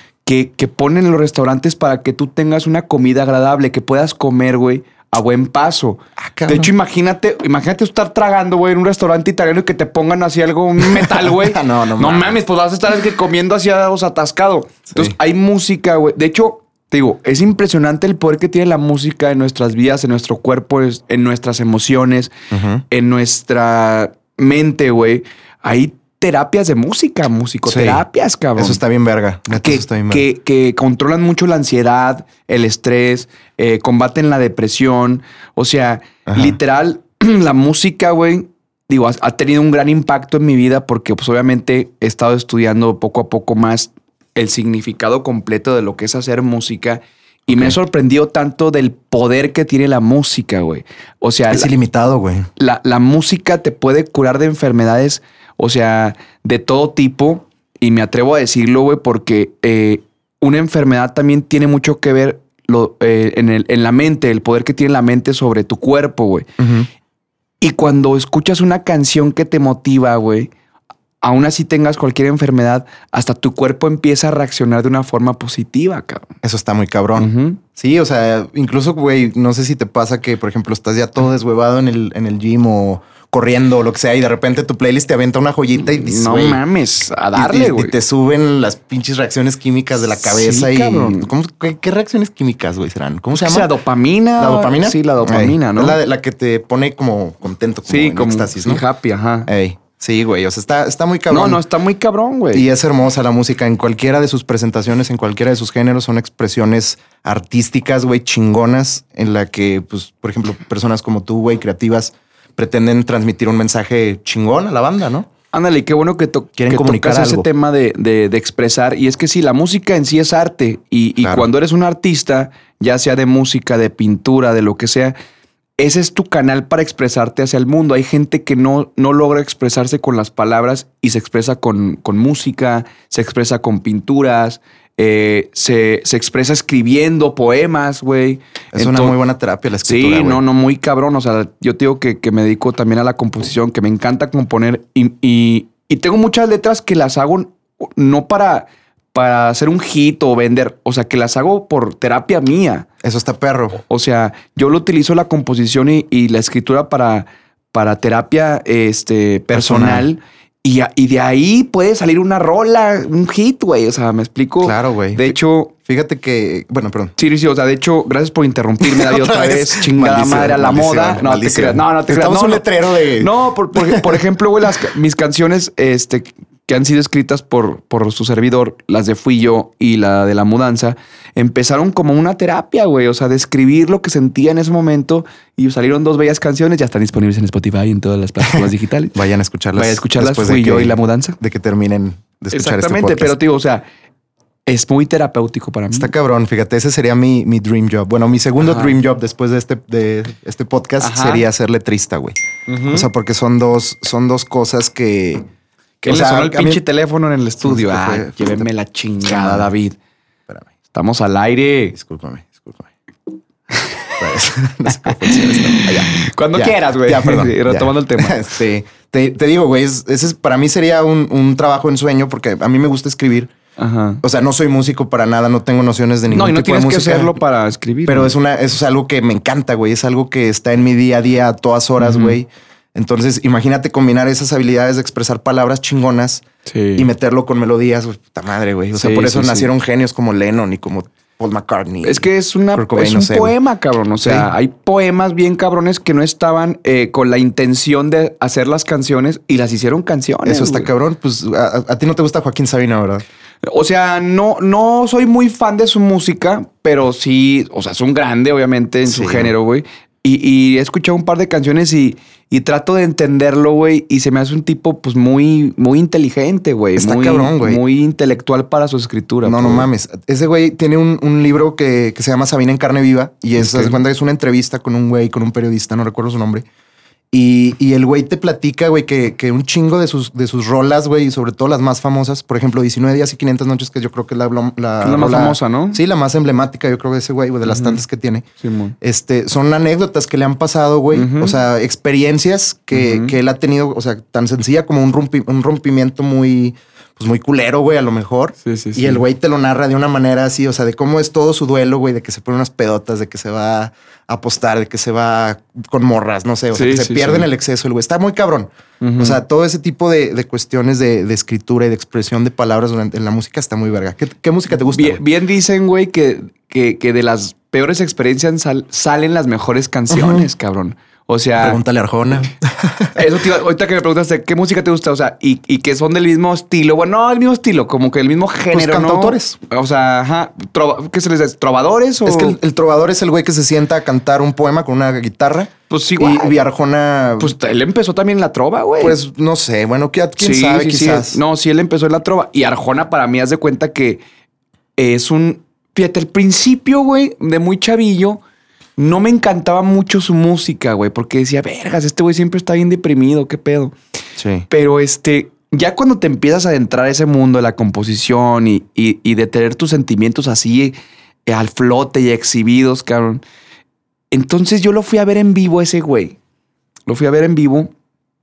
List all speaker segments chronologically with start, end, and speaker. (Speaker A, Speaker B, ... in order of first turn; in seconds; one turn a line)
Speaker A: 0.2-22.3
Speaker B: 6.2-6.7
Speaker B: 10.8-12.4
Speaker B: 14.9-15.1
Speaker B: 22.5-22.8
Speaker A: 22.9-28.8
Speaker B: 27.6-28.0
Speaker B: 28.6-30.2
Speaker A: 29.5-51.7
Speaker B: 36.3-36.6
Speaker B: 47.5-47.8
Speaker B: 51.5-52.5
Speaker A: 52.6-66.5
Speaker B: 66.6-66.9
Speaker A: 67.6-70.5
Speaker A: 71.2-76.3
Speaker B: 76.4-86.6
Speaker A: 77.2-77.6
Speaker A: 85.7-88.0
Speaker B: 87.3-93.7
Speaker A: 90.2-91.3
Speaker A: 93.3-96.0
Speaker B: 94.4-98.8
Speaker A: 97.8-99.5
Speaker B: 99.5-101.6
Speaker A: 101.3-102.7
Speaker B: 102.5-115.3
Speaker A: 115.5-125.1
Speaker B: 116.6-117.5
Speaker B: 121.2-121.5
Speaker A: 125.8-139.2
Speaker B: 138.7-140.4
Speaker A: 139.8-152.9
Speaker B: 153.0-153.8
Speaker A: 153.8-165.7
Speaker B: 159.5-160.1
Speaker B: 164.6-167.1
Speaker A: 167.2-172.6
Speaker B: 168.8-174.2
Speaker A: 173.2-189.2
Speaker B: 189.1-193.3
Speaker A: 189.7-191.4
Speaker A: 192.5-193.8
Speaker A: 194.7-196.1
Speaker B: 195.9-205.4
Speaker A: 198.6-198.9
Speaker A: 201.0-201.5
Speaker A: 202.7-203.1
Speaker B: 206.0-206.8
Speaker A: 206.0-210.0
Speaker B: 207.6-208.7
Speaker B: 209.2-209.7
Speaker A: 210.9-211.9
Speaker B: 211.9-212.9
Speaker A: 213.8-214.1
Speaker B: 214.2-223.5
Speaker A: 214.9-218.4
Speaker A: 223.8-224.2
Speaker B: 224.2-227.3
Speaker A: 226.3-228.3
Speaker B: 228.1-236.4
Speaker A: 232.0-232.4
Speaker A: 236.7-237.1
Speaker B: 237.0-243.5
Speaker A: 238.9-239.7
Speaker A: 242.0-250.9
Speaker B: 244.2-244.5
Speaker B: 250.4-253.2
Speaker A: 253.6-269.9
Speaker B: 259.0-259.5
Speaker B: 266.9-267.8
Speaker B: 269.4-276.6
Speaker A: 273.6-273.9
Speaker B: 277.3-288.4
Speaker A: 285.0-286.0
Speaker A: 287.6-288.0
Speaker A: 288.6-288.9
Speaker B: 289.0-315.2
Speaker A: 291.1-291.6
Speaker A: 292.9-293.3
Speaker A: 298.6-299.2
Speaker A: 306.7-307.5
Speaker A: 309.0-309.4
Speaker A: 314.9-321.8
Speaker B: 320.1-320.5
Speaker B: 321.6-323.2
Speaker A: 323.1-332.6
Speaker B: 328.7-329.6
Speaker B: 332.2-337.5
Speaker A: 335.9-336.6
Speaker A: 337.4-339.1
Speaker B: 339.0-341.4
Speaker A: 340.4-344.2
Speaker A: 345.0-348.4
Speaker A: 349.0-353.9
Speaker B: 354.4-354.6
Speaker A: 354.7-360.9
Speaker A: 361.5-363.4
Speaker A: 364.3-366.4
Speaker A: 367.1-367.9